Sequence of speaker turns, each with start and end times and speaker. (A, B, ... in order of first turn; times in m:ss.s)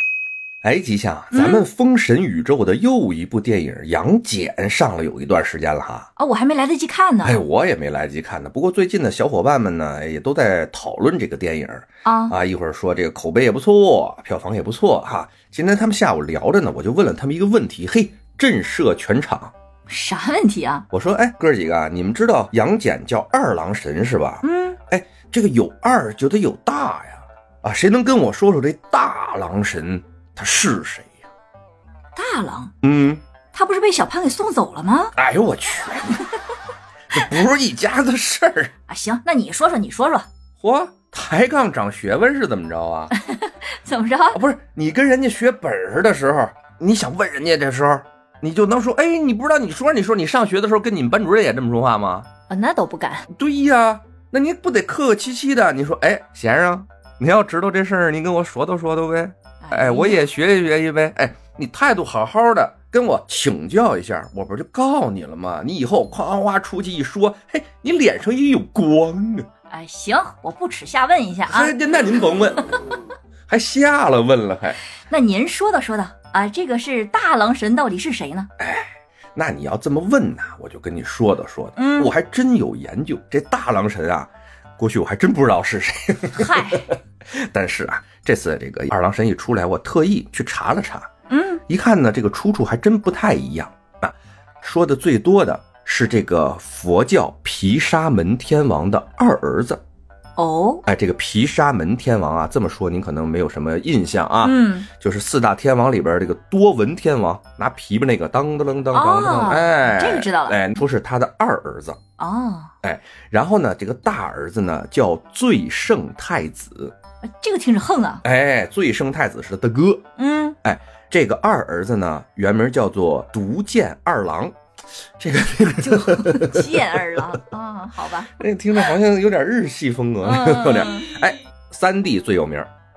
0:00.6-0:06.1 A
0:01.3-0:01.7 B
0:06.2-0:07.4 B
0:07.2-0:19.5 A
0:12.0-0:12.4 B
0:19.9-0:20.9 B
0:20.9-0:31.2 A
0:24.4-0:24.8 B
0:32.2-0:32.7 B
0:32.8-0:33.2 A
0:33.5-0:35.1 B
0:35.2-0:36.4 A
0:37.1-0:38.7 A
0:38.9-0:40.3 B
0:40.6-0:43.2 A
0:43.1-0:44.4 B
0:44.3-0:52.3 A
0:52.5-0:53.3 B
0:53.3-1:09.5 A
0:59.6-1:00.2 B
1:09.7-1:11.7 B
1:11.5-1:13.0 A
1:13.5-1:14.8 A
1:15.1-1:18.5 B
1:18.6-1:31.1 A
1:21.8-1:22.2 B
1:26.4-1:26.9 B
1:31.3-1:31.6 B
1:31.7-1:39.8 A
1:40.4-1:40.8 B
1:40.8-1:52.0 A
1:44.4-1:44.9 B
1:48.9-1:50.7 B
1:52.2-1:52.7 B
1:52.8-1:57.0 A
1:57.4-1:58.2 B
1:58.2-2:00.0 A
2:00.2-2:00.6 B
2:00.6-2:04.5 A
2:05.2-2:07.1 A
2:05.6-2:08.3 B
2:08.4-2:12.7 A
2:10.2-2:11.1 B